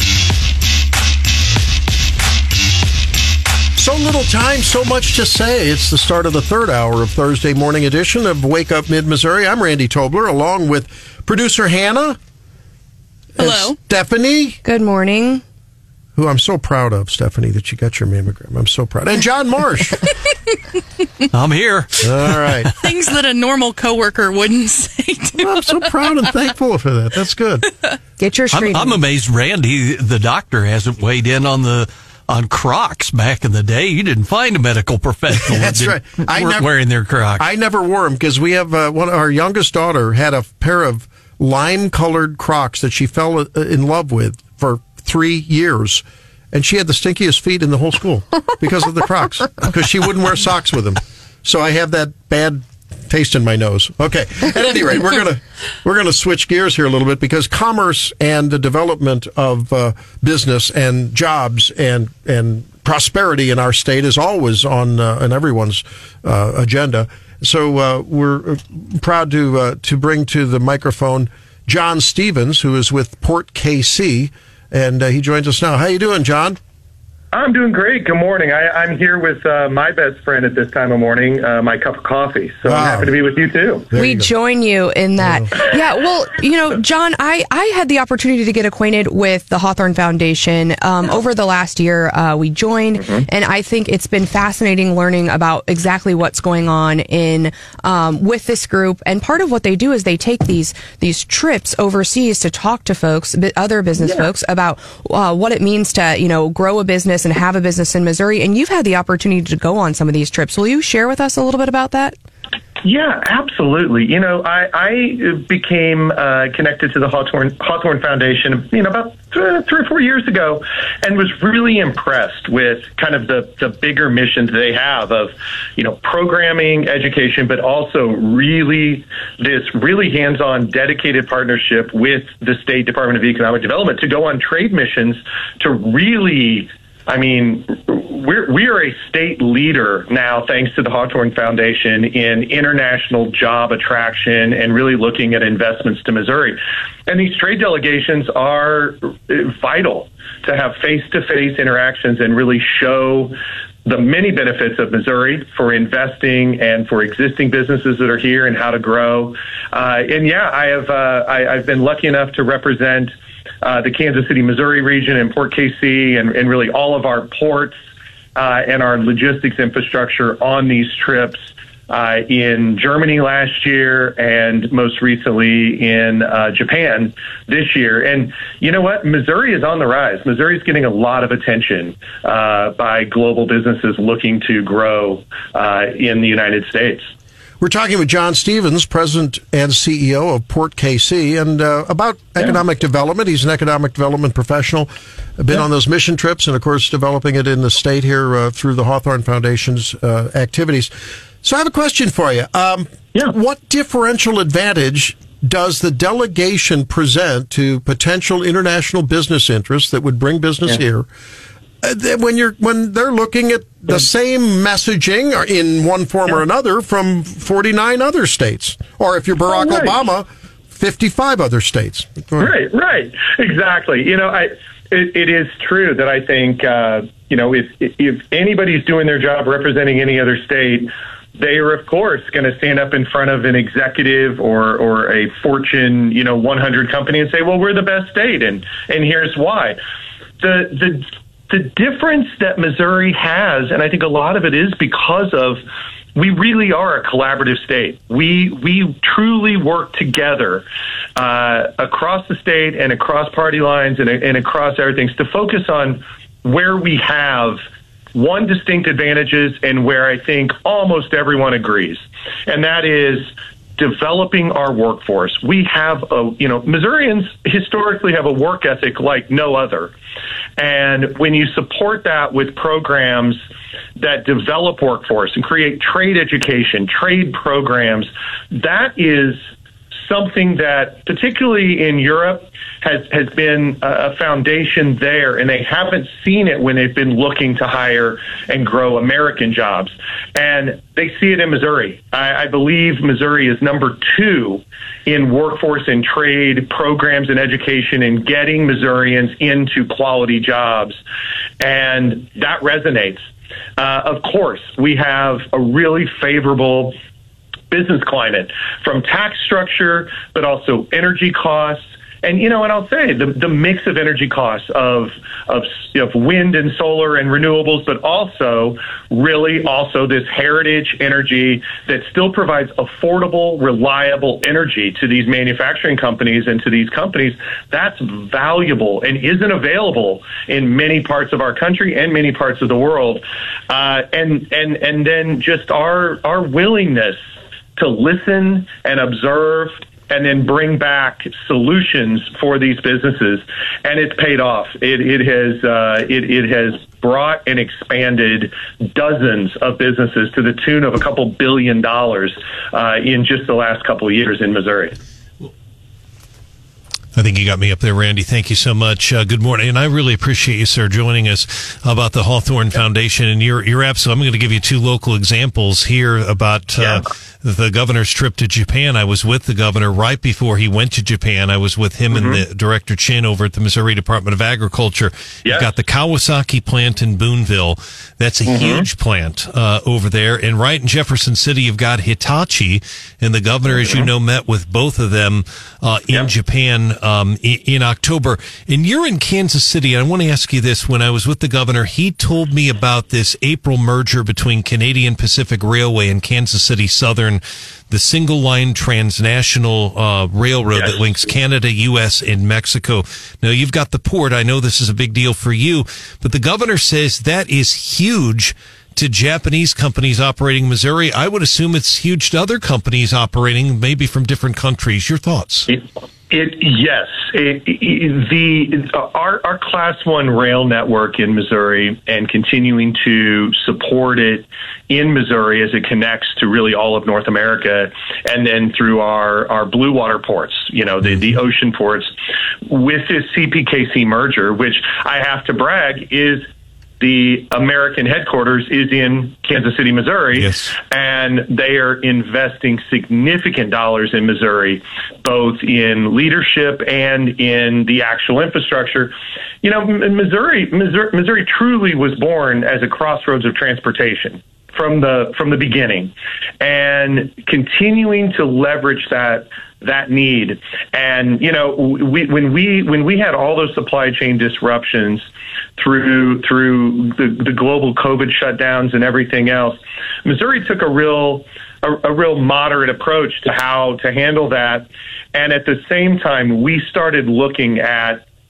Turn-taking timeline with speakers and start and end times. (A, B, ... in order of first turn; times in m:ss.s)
0:03.8-0:12.2 A
0:13.4-0:14.6 A
0:13.4-0:13.8 B
0:14.6-0:15.4 C
0:16.2-0:20.1 A
0:21.3-0:22.7 D
0:22.0-0:22.7 A
0:22.8-0:26.1 B
0:25.4-0:27.7 A
0:28.2-0:29.0 C
0:28.5-0:37.4 D
0:35.4-0:36.7 A
0:37.4-1:16.6 A
1:17.3-1:23.9 E
1:22.6-1:23.1 A
1:23.9-1:24.3 A
1:23.9-1:52.1 C
1:25.2-1:25.5 A
1:52.8-2:47.8 E
2:48.3-3:07.1 E
3:07.6-3:20.9 A
3:21.4-3:31.1 A
3:31.8-3:42.5 A
3:39.5-3:39.9 E
3:42.4-3:59.8 E
4:00.4-4:05.6 E
4:06.2-4:10.6 E
4:11.2-4:17.6 E
4:18.1-4:29.9 E
4:30.6-4:33.4 E
4:34.0-4:39.4 E
4:40.0-5:01.0 E
5:01.6-5:03.2 E
5:03.8-5:07.0 E
5:07.7-5:37.2 E
5:37.8-5:55.0 E
5:57.1-6:55.7 F
6:12.1-6:12.4 E
6:18.4-6:18.8 E
6:23.7-6:24.1 E
6:40.7-6:41.0 E
6:55.7-7:12.1 E
7:12.6-7:16.4 E
7:17.0-7:58.2 E
7:20.3-7:20.7 F